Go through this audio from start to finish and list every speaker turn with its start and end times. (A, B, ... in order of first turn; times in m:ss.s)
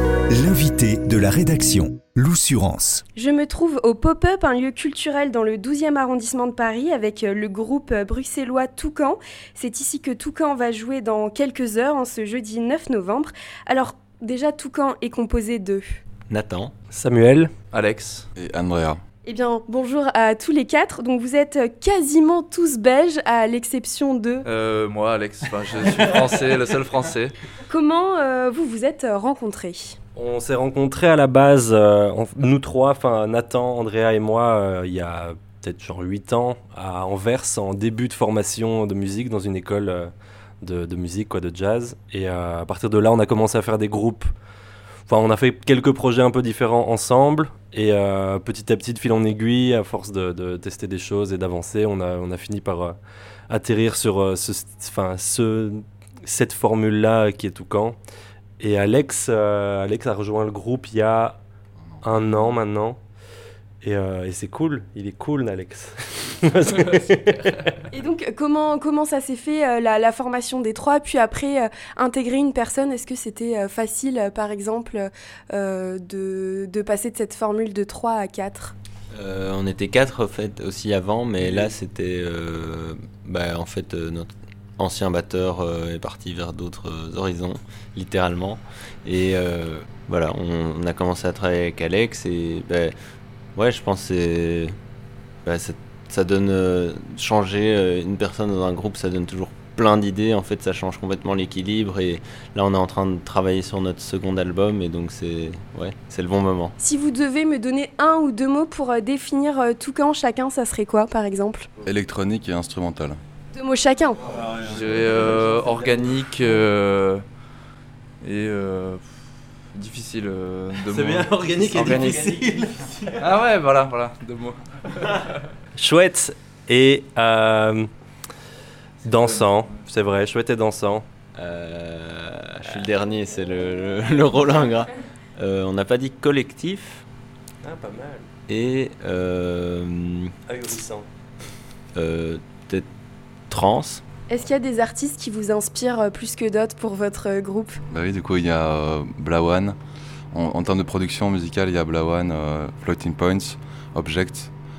0:00.3-0:03.0 A
0:03.1-0:16.0 B
0:16.3-0:16.7 C
0:16.9-0:17.5 D
0:17.7-0:18.3 E
0:18.4-0:19.0 F
0:19.2-0:24.4 B
0:24.4-0:27.3 E
0:27.6-0:30.0 B
0:30.2-0:44.3 D
0:45.1-0:53.0 D
0:53.5-0:58.0 D
0:58.6-1:01.4 D
1:02.0-1:03.0 D
1:03.8-1:07.8 D
1:07.9-1:18.7 B
1:19.1-1:32.9 C
1:21.4-1:21.7 D
1:33.5-1:34.7 C
1:35.4-1:46.7 C
1:46.8-1:51.7 B
1:51.8-1:53.2 F
1:53.5-1:54.4 B
1:54.5-1:57.2 E
1:58.2-1:59.2 E
1:59.7-2:02.2 E
2:00.9-2:02.4 D
2:01.5-2:03.1 C
2:03.2-2:04.7 E
2:05.7-2:07.9 D
2:09.0-2:11.0 D
2:11.4-2:17.0 C
2:17.6-2:18.2 D
2:18.5-2:20.3 C
2:20.5-2:21.0 D
2:21.9-2:22.9 C
2:23.5-2:24.0 C
2:24.3-2:27.8 B
2:27.9-2:29.8 F
2:30.3-2:34.5 F